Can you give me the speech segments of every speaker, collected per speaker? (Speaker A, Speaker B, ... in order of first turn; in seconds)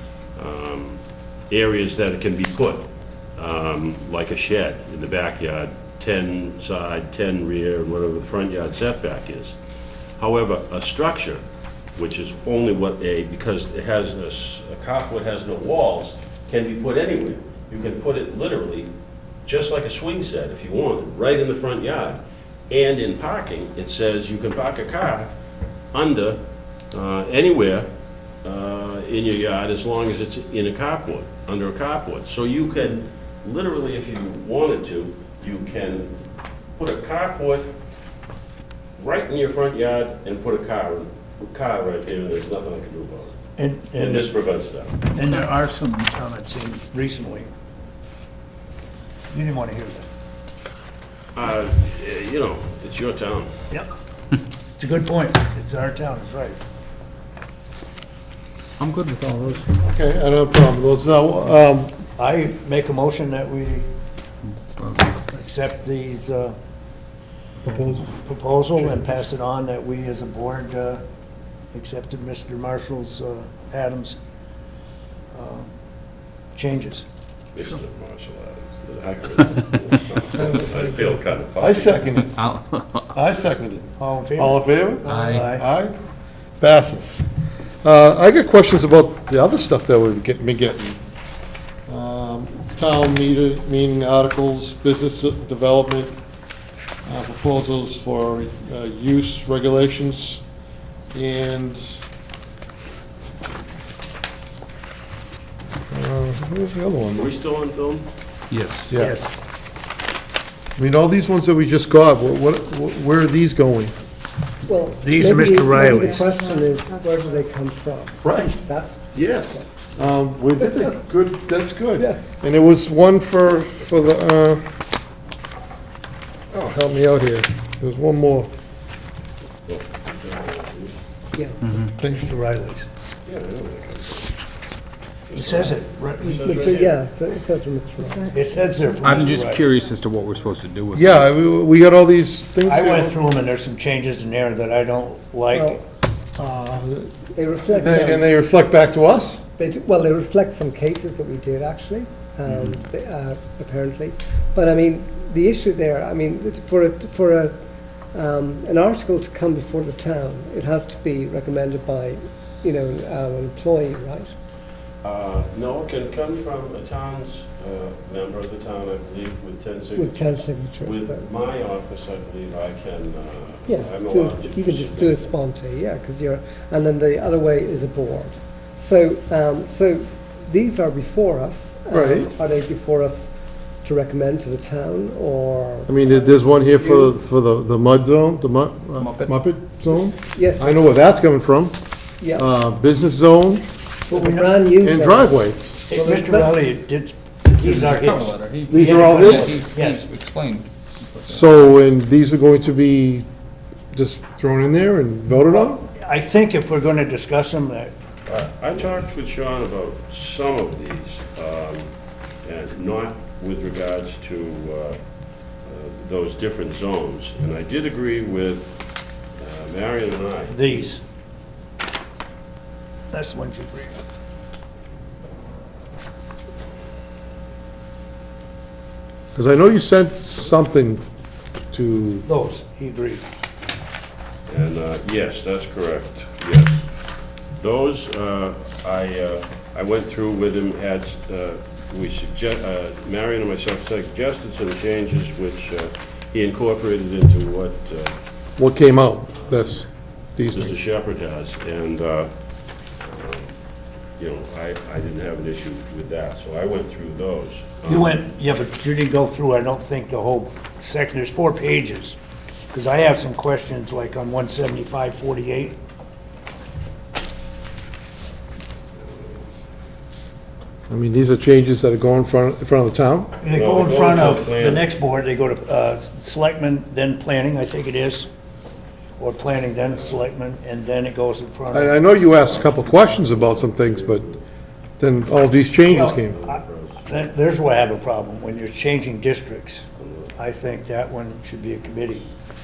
Speaker A: 0.3-9.6, 10.2-11.4, 11.9-18.9, 19.4-25.3, 25.9-26.4, 26.9-27.9, 28.4-36.2, 36.8-37.7, 39.0-43.4, 43.9-45.1, 51.3-53.5, 77.5-82.2, 107.1-108.1, 129.7-131.0, 133.2-134.3, 135.3-137.0, 165.0-175.3, 208.2-211.9, 212.4-215.0, 215.6-218.8, 219.4-220.7, 234.5-236.9, 237.6-248.2, 250.5-252.3, 253.0-253.5, 254.2-258.2, 273.5-274.9, 282.3-284.4, 285.9-287.1, 290.0-290.3
Speaker B: 43.6-44.3, 45.1-47.5, 49.3-50.0, 54.8-56.6, 62.2-63.9, 65.3-66.5, 68.2-71.0, 71.7-74.2, 75.3-75.7, 76.5-77.0, 84.0-85.6, 108.9-109.3, 115.0-116.3, 132.1-132.9, 135.3-136.8, 138.3-139.7, 142.7-145.8, 194.1-194.6, 195.9-200.0, 205.5-207.9, 220.5-221.0, 223.1-224.0, 232.2-233.2, 257.9-262.2, 262.7-265.8, 273.4-278.3, 279.2-282.1, 285.9-289.8, 290.4-292.3
Speaker C: 58.8-59.7, 64.5-65.2, 82.3-83.1, 85.0-85.5, 108.5-108.9, 131.6-131.9, 139.0-141.3, 189.0-189.3, 197.6-201.5
Speaker D: 59.8-61.9, 67.6-68.1, 68.8-69.2, 81.6-82.4, 83.1-85.9, 86.6-87.2, 87.8-91.0, 91.9-96.2, 97.0-100.4, 101.1-102.0, 105.9-107.3, 110.8-113.9, 118.2-124.6, 126.5-128.5, 132.0-132.3, 140.9-143.2, 146.4-149.4, 181.9-182.3, 185.9-191.7, 192.3-193.7, 194.8-195.8, 198.7-199.7, 201.3-203.2, 203.9-205.8, 229.3-231.0, 231.7-232.2, 248.6-250.7, 270.9-273.3, 281.7-284.3, 285.0-286.4
Speaker E: 80.3-81.3, 114.7-119.7, 122.0-122.3, 131.3-131.6, 136.4-138.4, 145.5-145.8, 147.3-148.3, 149.6-157.5, 158.1-164.3, 169.9-171.3, 173.7-187.1, 190.3-190.8, 192.2-192.5, 194.1-196.7